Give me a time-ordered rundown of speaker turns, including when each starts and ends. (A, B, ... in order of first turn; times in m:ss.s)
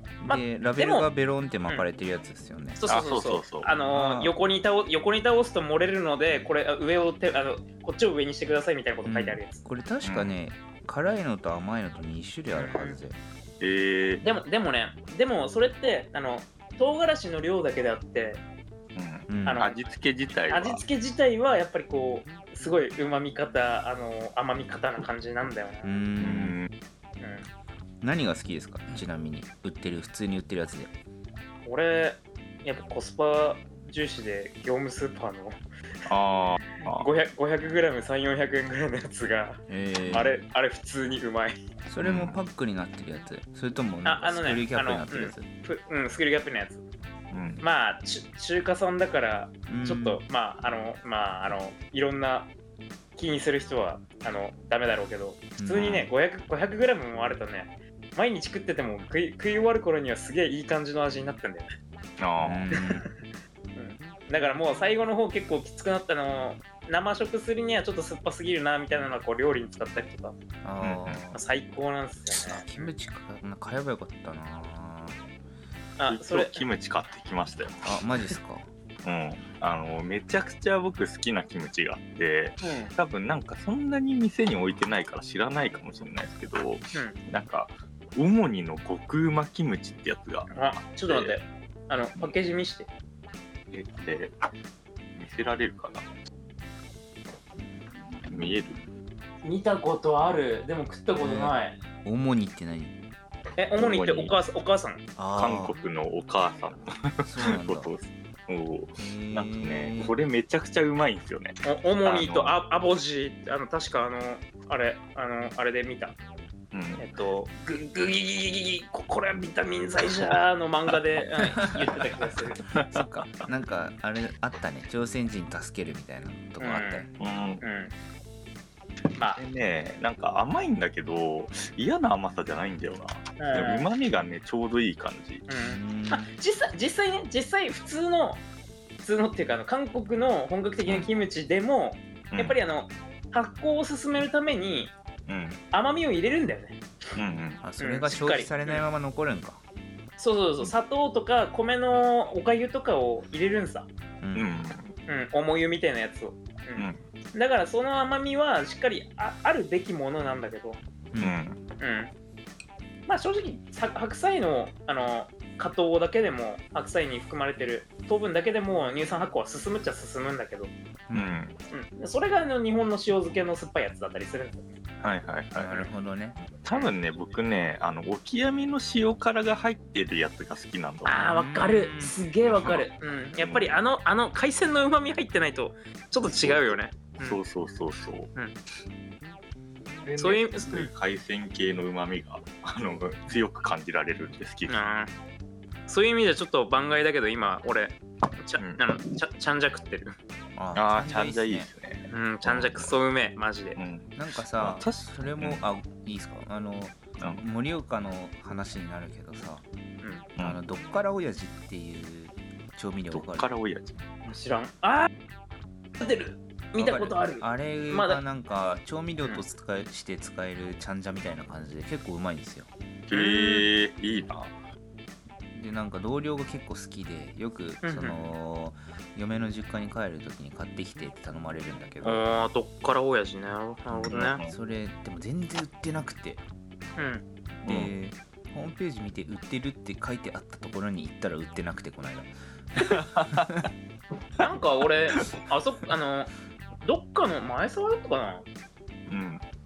0:00.2-0:02.8 A
0:00.3-0:01.1 B
0:02.8-0:09.6 B
0:02.9-0:03.7 C
0:03.9-0:04.3 A
0:09.0-0:13.2 A
0:10.0-0:10.3 C
0:12.6-0:13.0 B
0:13.6-0:14.2 C
0:14.2-0:18.4 B
0:18.9-0:20.8 C
0:19.3-0:19.6 A
0:19.4-0:19.9 B
0:20.5-0:25.9 B
0:25.8-0:26.6 A
0:26.2-0:26.7 C
0:27.2-0:27.5 B
0:28.0-0:30.9 A
0:31.7-0:35.6 B
0:36.0-0:37.1 C
0:36.8-0:41.6 B
0:39.7-0:40.3 A
0:41.8-0:45.5 A
0:42.0-0:42.4 C
0:44.0-0:46.8 B
0:47.3-0:47.6 C
0:47.6-0:52.5 B
0:49.7-0:50.2 A
0:53.2-1:01.7 B
0:55.6-0:56.1 A
1:02.2-1:02.7 C
1:02.4-1:03.1 A
1:02.7-1:03.1 B
1:03.8-1:10.4 B
1:10.6-1:11.4 A
1:10.8-1:11.2 C
1:11.3-1:12.9 B
1:12.3-1:15.2 A
1:16.0-1:16.6 B
1:16.1-1:17.9 C
1:17.8-1:18.7 A
1:19.0-1:30.5 C
1:22.6-1:22.9 B
1:30.5-1:32.9 B
1:31.0-1:31.4 C
1:33.7-1:34.3 C
1:35.2-1:36.0 C
1:38.2-1:38.8 C
1:39.4-1:41.8 B
1:41.1-1:43.0 A
1:43.6-1:45.0 B
1:43.8-1:44.4 C
1:45.2-1:45.7 A
1:45.3-1:52.5 C
1:47.2-1:47.9 A
1:49.0-1:50.1 A
1:51.6-1:56.2 B
1:56.7-1:57.0 C
1:57.0-2:02.6 B
2:02.7-2:03.4 C
2:02.8-2:07.1 A
2:06.6-2:07.1 B
2:07.2-2:07.6 C
2:07.6-2:07.9 B
2:09.4-2:15.5 C
2:13.4-2:13.9 B
2:15.5-2:18.4 B
2:15.6-2:16.3 A
2:19.0-2:24.9 B
2:25.3-2:25.6 C
2:25.7-2:26.8 B
2:27.2-2:27.6 C
2:27.6-2:29.6 A
2:27.8-2:28.8 B
2:30.2-2:33.9 B
2:34.2-2:34.5 A
2:34.3-2:34.9 C
2:35.1-2:40.8 B
2:36.8-2:37.0 C
2:41.1-2:41.4 A
2:41.2-2:41.6 C
2:41.8-2:42.1 B
2:43.1-2:50.7 B
2:51.1-2:51.4 A
2:51.1-2:51.6 C
2:51.7-2:54.8 B
2:55.0-2:55.9 C
2:55.5-2:56.4 A
2:56.6-3:01.3 C
3:01.0-3:07.4 B
3:01.3-3:02.2 A
3:02.4-3:02.9 C
3:03.4-3:03.8 C
3:06.2-3:08.3 C
3:10.0-3:14.9 C
3:10.2-3:10.9 B
3:14.7-3:15.1 B
3:15.9-3:20.1 B
3:20.5-3:21.7 A
3:20.8-3:22.9 C
3:22.1-3:23.8 B
3:23.8-3:25.6 C
3:24.2-3:29.6 A
3:30.4-3:33.5 A
3:33.1-3:34.0 C
3:34.2-3:35.1 B
3:36.0-3:38.2 B
3:36.7-3:42.7 A
3:43.1-3:44.5 C
3:43.1-3:43.7 B
3:45.5-3:52.2 A
3:47.8-3:48.2 B
3:52.0-3:54.4 B
3:53.9-3:56.4 A
3:54.1-3:54.5 C
3:57.0-3:57.2 B
3:57.6-4:03.6 A
3:57.6-3:57.9 C
4:02.8-4:03.5 C
4:04.4-4:06.3 B
4:06.8-4:08.4 B
4:09.1-4:09.4 C